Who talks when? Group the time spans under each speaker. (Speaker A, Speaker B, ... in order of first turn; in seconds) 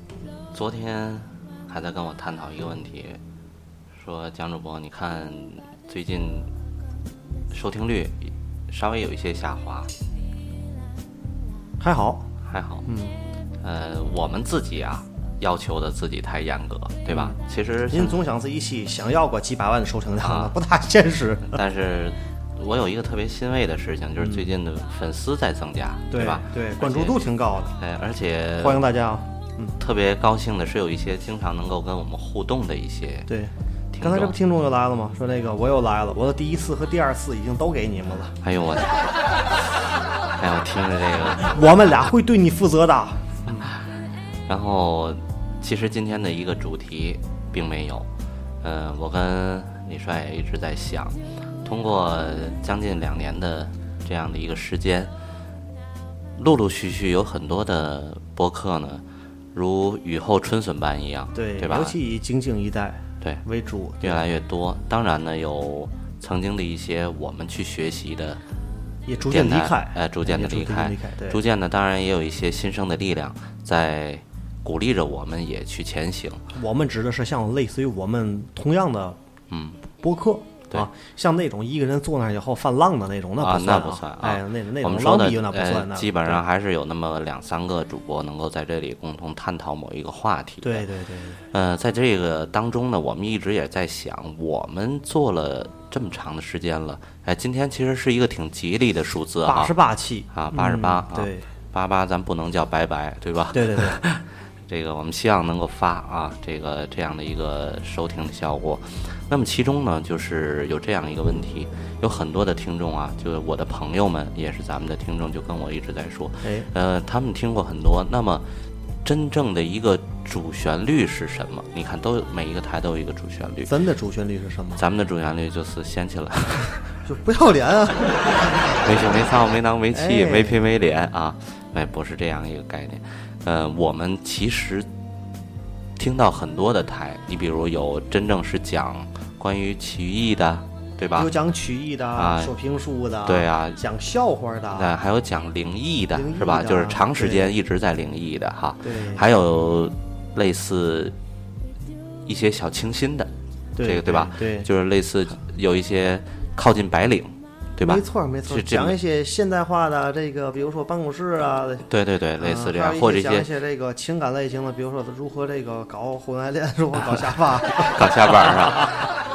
Speaker A: 0.5-3.2, 3.9-6.5, 7.5-9.9, 12.5-12.8, 13.6-18.2, 20.2-20.5, 21.5-27.2, 27.8-28.8, 29.8-33.3, 33.9-34.4, 38.4-39.0, 40.4-41.6, 44.5-48.1, 48.6-55.1, 56.4-62.0, 64.0-68.4, 69.2-76.4, 79.5-79.8, 83.4-90.9, 91.5-99.7, 100.3-118.5, 119.0-123.7, 124.8-126.9, 128.2-134.9, 136.0-141.3, 142.1-142.5, 143.2-143.8, 144.8-151.2, 152.2-153.3, 153.8-159.0, 161.9-163.5, 167.8-169.0
Speaker B: 11.8-12.3, 12.8-13.1, 17.1-17.4, 17.9-21.6, 24.2-24.5, 26.1-27.8, 28.6-29.8, 33.3-38.3, 41.4-43.7, 61.3-64.2, 69.1-71.4, 76.5-79.2, 80.0-86.4, 90.6-91.4, 99.5-101.5, 103.5-104.0, 123.7-124.8, 127.0-128.8, 129.9-130.6, 141.2-144.9, 146.1-147.5, 148.8-149.2, 153.8-154.7, 157.8-161.8, 162.4-169.0